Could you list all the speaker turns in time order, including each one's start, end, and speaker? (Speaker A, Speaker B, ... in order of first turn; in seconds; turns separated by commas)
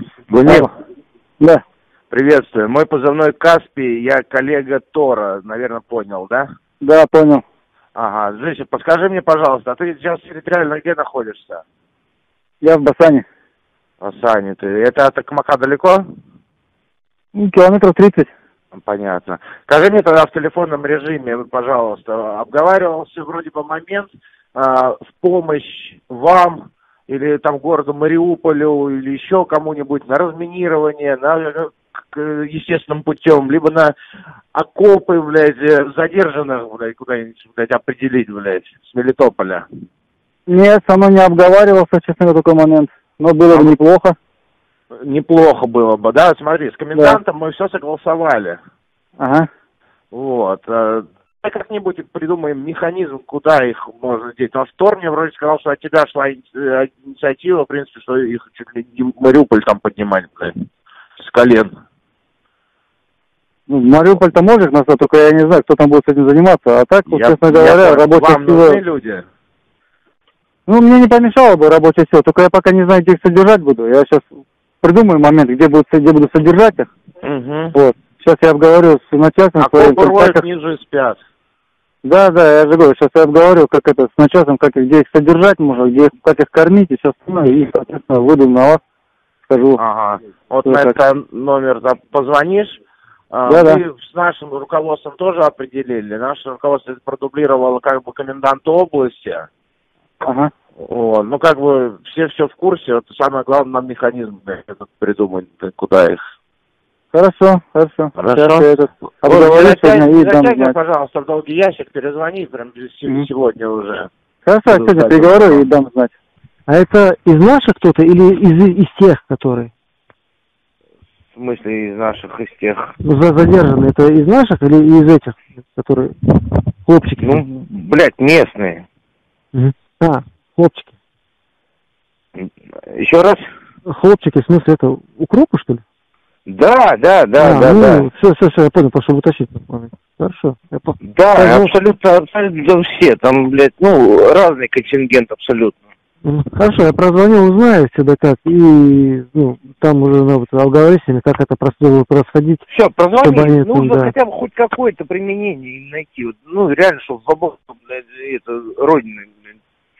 Speaker A: 0.3-0.7, Speaker A: 2.1-6.5, Speaker B: 6.8-7.4, Speaker A: 8.0-11.6, Speaker B: 12.6-13.3, Speaker A: 14.0-16.0, Speaker B: 17.4-18.3, Speaker A: 18.7-33.9, Speaker A: 34.5-39.7, Speaker B: 40.5-44.2, Speaker A: 43.5-43.8, Speaker A: 45.0-48.6, Speaker B: 46.9-47.2, Speaker B: 49.2-49.5, Speaker A: 50.1-60.5, Speaker A: 61.2-61.7, Speaker B: 63.7-68.8, Speaker A: 67.1-69.2, Speaker B: 70.7-74.3, Speaker B: 74.8-76.9, Speaker A: 77.2-77.7, Speaker B: 77.7-80.4, Speaker A: 79.6-81.2, Speaker B: 82.0-88.8, Speaker B: 89.5-89.8, Speaker A: 89.8-92.8, Speaker B: 90.7-91.0, Speaker A: 93.3-99.5, Speaker B: 93.5-93.8, Speaker B: 100.2-100.5, Speaker A: 100.8-106.2, Speaker B: 107.1-110.8, Speaker A: 108.2-108.7, Speaker A: 109.2-114.1, Speaker B: 114.5-116.1, Speaker A: 114.7-115.7, Speaker C: 116.7-119.7, Speaker A: 121.3-122.9, Speaker C: 123.0-127.4, Speaker A: 127.2-128.9, Speaker C: 129.5-130.9, Speaker A: 132.3-133.4, Speaker C: 133.9-135.8, Speaker A: 136.5-138.1, Speaker C: 137.4-141.8, Speaker A: 141.0-145.8, Speaker C: 146.2-152.7, Speaker A: 152.7-159.6, Speaker C: 153.2-154.1